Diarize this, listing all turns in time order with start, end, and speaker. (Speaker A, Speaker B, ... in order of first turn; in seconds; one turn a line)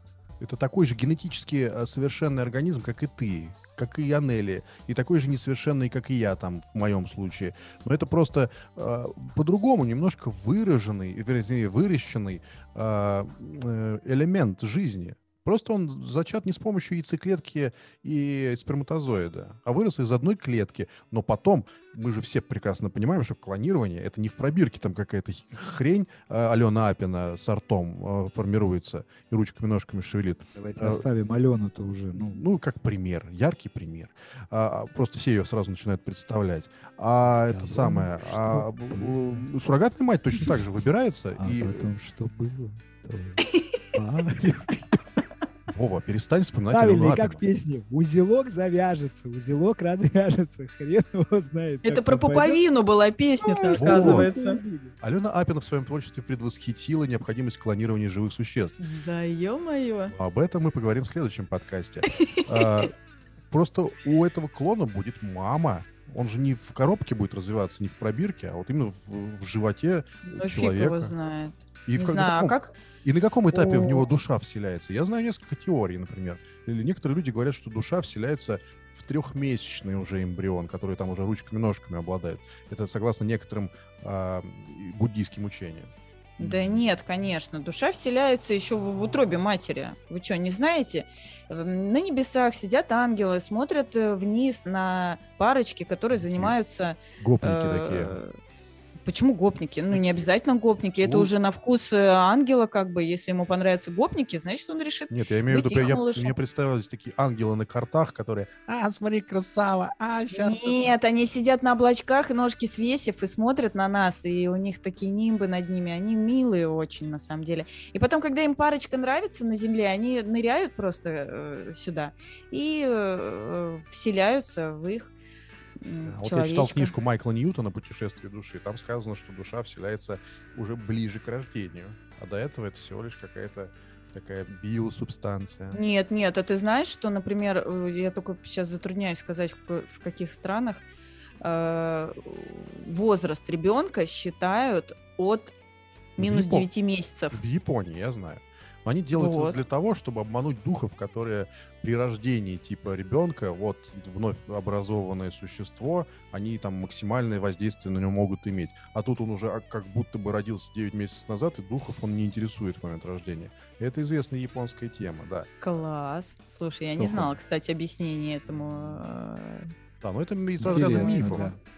Speaker A: 0.4-31.0
Speaker B: 30.6-32.4
Speaker A: 32.1-41.9
Speaker B: 37.2-39.5
Speaker B: 41.4-43.4
Speaker C: 43.4-43.8
Speaker B: 43.9-45.0
Speaker A: 45.7-47.4
Speaker B: 46.7-52.6
Speaker C: 51.8-54.6
Speaker B: 53.4-55.0
Speaker A: 53.8-54.3
Speaker A: 55.0-58.8
Speaker C: 58.8-60.1
Speaker A: 60.1-62.9
Speaker C: 62.1-62.9
Speaker A: 63.5-71.1
Speaker C: 70.2-72.7
Speaker A: 71.9-85.9
Speaker C: 73.5-74.0
Speaker C: 86.4-98.3
Speaker B: 86.4-86.7
Speaker A: 96.2-96.5
Speaker A: 97.2-98.2
Speaker C: 99.0-106.3
Speaker A: 101.0-101.3
Speaker A: 105.1-110.9
Speaker C: 110.3-125.1
Speaker C: 125.8-126.9
Speaker A: 126.0-135.8
Speaker C: 135.7-140.8
Speaker C: 141.4-145.5
Speaker C: 146.2-147.4
Speaker A: 146.2-146.7
Speaker A: 147.3-165.5
Speaker C: 149.1-149.6
Speaker C: 165.6-169.7
Speaker A: 166.9-167.3
Speaker A: 170.0-171.5
Speaker B: 170.6-171.6
Speaker C: 170.6-171.5